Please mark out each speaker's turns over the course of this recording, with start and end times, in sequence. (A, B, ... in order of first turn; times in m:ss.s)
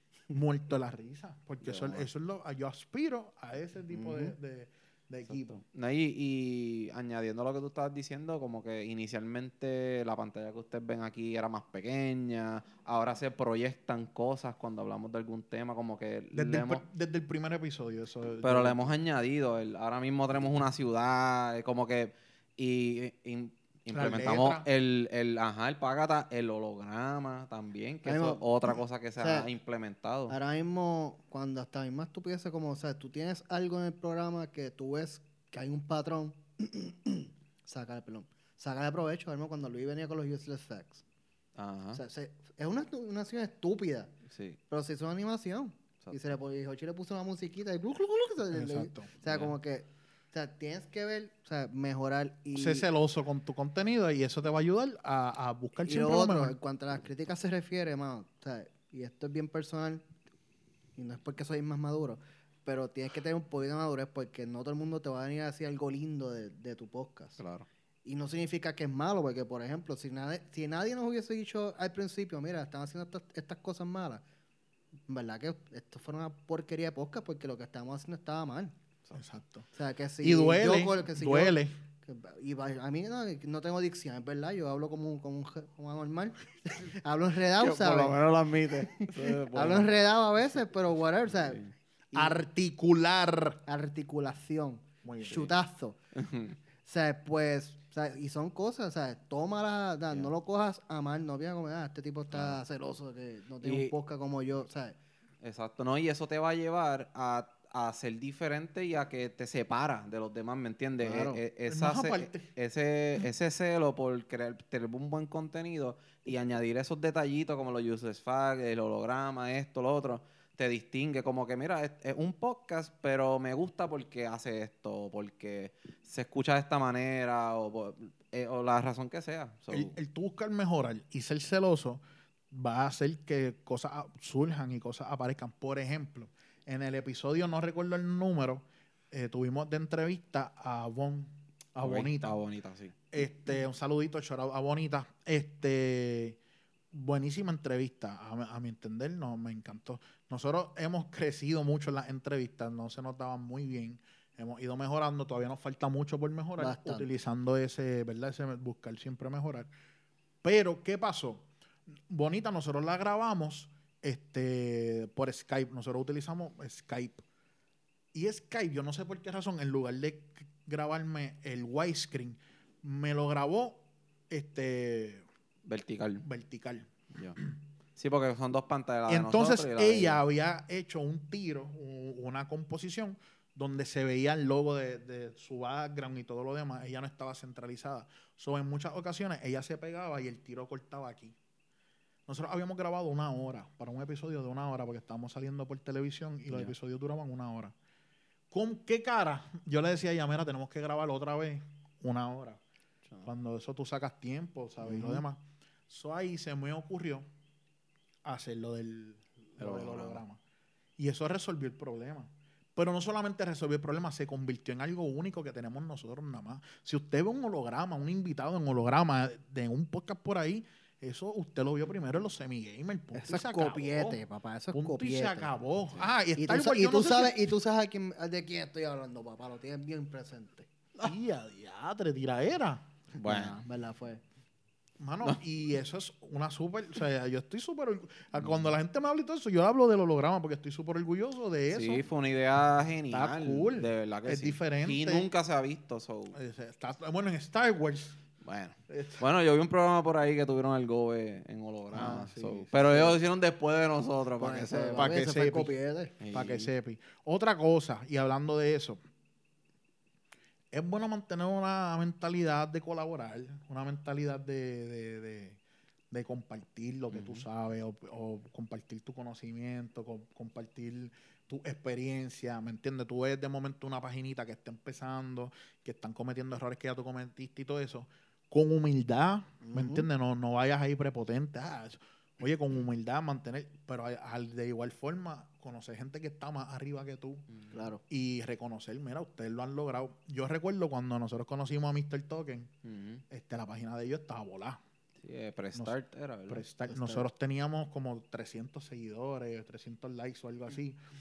0:00.3-0:05.6 A
0:01.6-0:02.0 B
0:03.9-0:04.3 C
0:05.3-0:16.8 B
0:16.3-0:18.9 A
0:18.4-0:30.4 B
0:23.9-0:24.7 A
0:28.0-0:28.4 C
0:29.2-0:29.5 C
0:30.3-0:41.0 C
0:41.6-0:42.0 B
0:41.9-0:44.1 C
0:44.3-0:44.6 B
0:44.7-0:52.9 C
0:48.5-0:49.1 A
0:49.2-0:49.5 B
0:52.5-0:56.5 A
0:55.8-1:00.0 C
1:01.0-1:07.4 C
1:07.4-1:07.7 B
1:08.0-1:14.2 C
1:15.1-1:18.7 C
1:19.1-1:19.7 A
1:19.7-1:32.4 C
1:20.2-1:21.7 A
1:27.6-1:29.9 B
1:31.3-1:31.7 B
1:32.1-1:33.6 A
1:33.6-1:36.0 C
1:35.0-1:35.5 A
1:36.2-1:36.6 B
1:36.8-1:45.0 C
1:42.3-1:42.6 B
1:43.6-1:43.9 B
1:45.4-2:10.0 B
1:51.0-1:51.4 C
1:51.7-1:52.5 A
2:09.7-2:22.4 A
2:21.8-2:22.9 B
2:23.1-2:26.4 A
2:26.9-2:39.7 A
2:36.6-2:37.1 C
2:40.4-2:41.4 A
2:42.1-2:47.2 A
2:48.1-2:55.2 A
2:55.6-2:56.2 B
2:56.2-2:57.5 A
2:58.0-3:00.2 B
2:59.1-3:11.4 A
3:12.3-3:17.7 A
3:18.5-3:22.6 A
3:23.2-3:27.2 A
3:28.2-3:30.4 A
3:29.6-3:30.2 B
3:31.0-3:44.2 A
3:43.1-3:45.5 C
3:44.7-3:47.5 A
3:46.4-3:50.7 C
3:51.0-3:52.9 A
3:53.2-3:53.6 B
3:53.2-3:54.2 C
3:55.0-4:02.1 A
4:01.7-4:06.4 B
4:03.1-4:05.3 A
4:06.3-4:08.2 A
4:08.4-4:15.1 B
4:08.9-4:09.2 A
4:11.9-4:13.1 A
4:14.4-4:16.2 C
4:15.0-4:15.7 A
4:16.2-4:16.7 B
4:16.3-4:19.0 A
4:20.7-4:25.6 A
4:26.1-4:47.5 A
4:27.1-4:27.4 B
4:39.6-4:40.1 C
4:47.7-4:48.0 C
4:48.1-4:52.7 A
4:52.8-4:53.2 B
4:53.3-4:54.8 A
4:55.2-4:56.6 B
4:56.5-5:01.0 A
4:56.9-4:57.2 C